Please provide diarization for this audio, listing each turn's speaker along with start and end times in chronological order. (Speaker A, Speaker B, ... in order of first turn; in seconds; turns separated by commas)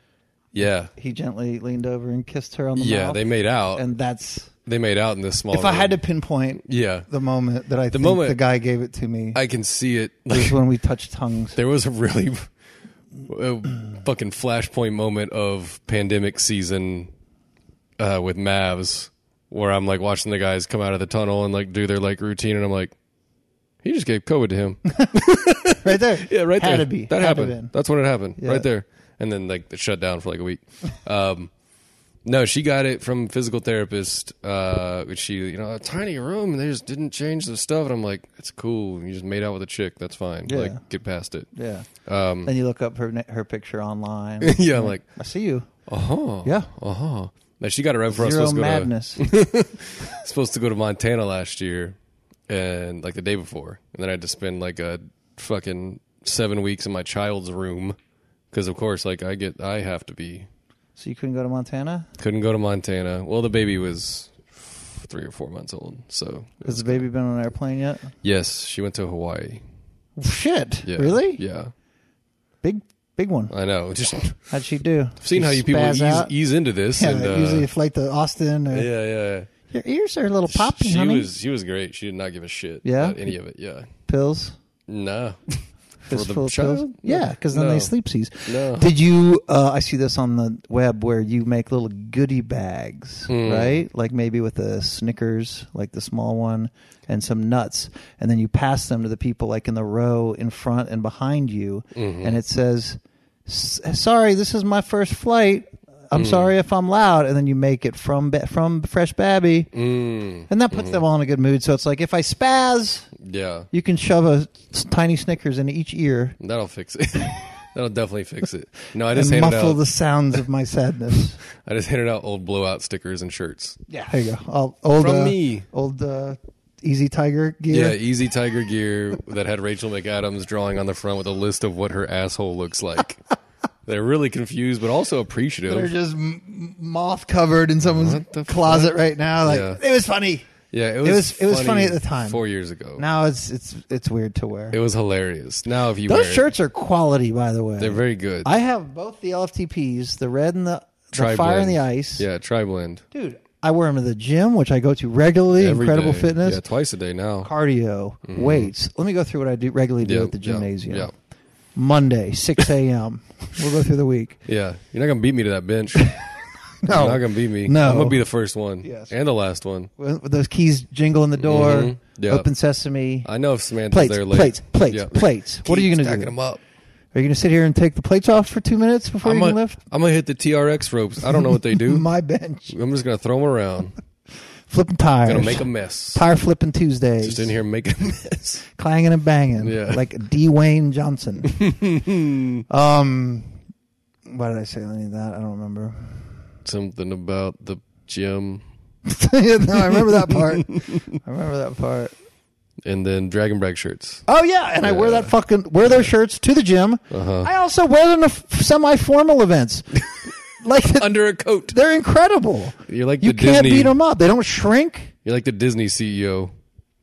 Speaker A: 0.5-0.9, Speaker B: 0.9-4.5, Speaker A: 2.8-3.8, Speaker A: 4.7-6.0, Speaker B: 5.5-9.4, Speaker A: 6.6-7.1, Speaker A: 7.9-8.4, Speaker A: 9.3-10.6, Speaker B: 10.3-11.6, Speaker A: 11.5-12.5, Speaker A: 13.2-17.1, Speaker A: 18.0-22.9, Speaker A: 23.8-31.5, Speaker B: 25.0-27.7, Speaker B: 28.4-28.6, Speaker A: 32.2-41.5, Speaker B: 40.5-40.8, Speaker B: 41.5-41.9, Speaker A: 42.0-42.5, Speaker B: 42.4-45.7, Speaker A: 44.4-45.1, Speaker A: 45.9-52.0, Speaker B: 46.4-46.7, Speaker B: 48.1-49.3, Speaker A: 52.5-58.0, Speaker A: 58.5-60.5, Speaker B: 61.0-62.1, Speaker A: 62.2-67.0, Speaker B: 66.6-68.1, Speaker A: 68.2-69.6, Speaker B: 70.2-71.4, Speaker A: 70.8-71.7, Speaker B: 72.6-73.5, Speaker A: 73.5-74.5, Speaker B: 74.5-76.3, Speaker A: 75.2-77.7, Speaker B: 76.9-78.9, Speaker A: 78.7-79.5, Speaker B: 79.7-81.3, Speaker A: 80.5-83.9, Speaker B: 82.8-83.2, Speaker B: 84.1-84.5, Speaker A: 84.9-87.9, Speaker B: 86.1-109.7, Speaker A: 88.4-88.9, Speaker A: 93.3-93.8, Speaker A: 101.9-102.4, Speaker A: 106.1-106.5, Speaker A: 109.7-111.0, Speaker B: 110.5-113.1, Speaker A: 113.2-113.7, Speaker B: 113.7-116.3, Speaker A: 116.4-119.8, Speaker B: 119.1-121.4, Speaker A: 121.6-123.8, Speaker B: 123.9-128.0, Speaker A: 125.0-125.7, Speaker A: 127.7-133.2, Speaker A: 133.8-135.9, Speaker B: 135.7-142.4, Speaker A: 137.9-139.8, Speaker A: 140.7-143.1, Speaker B: 143.0-144.8, Speaker A: 144.7-146.5, Speaker B: 146.1-152.2, Speaker A: 147.8-148.5, Speaker A: 151.1-153.0, Speaker B: 153.1-156.6, Speaker A: 155.6-157.5, Speaker B: 157.4-161.1, Speaker A: 158.2-158.7, Speaker A: 160.0-161.1, Speaker B: 161.7-164.4, Speaker A: 164.5-166.2, Speaker B: 166.0-166.2, Speaker B: 166.8-168.2, Speaker A: 166.8-169.9, Speaker B: 168.8-169.1, Speaker B: 170.0-173.3, Speaker A: 171.4-172.5, Speaker A: 173.2-176.6, Speaker B: 173.9-176.3, Speaker B: 177.1-179.8, Speaker A: 179.2-182.1, Speaker B: 181.4-182.7, Speaker A: 182.7-184.0, Speaker B: 184.7-187.6, Speaker A: 185.2-186.2, Speaker A: 187.2-188.6, Speaker B: 188.7-191.6, Speaker A: 189.6-190.1, Speaker A: 191.5-192.6, Speaker B: 192.7-193.6, Speaker B: 194.3-196.3, Speaker A: 196.6-198.6, Speaker B: 199.0-202.1, Speaker A: 200.3-201.0, Speaker A: 202.8-204.2, Speaker B: 204.3-209.9, Speaker A: 204.8-205.3, Speaker A: 207.1-207.5, Speaker B: 210.6-211.1, Speaker A: 211.0-211.8, Speaker B: 211.7-215.1, Speaker A: 212.9-213.9, Speaker A: 215.2-216.5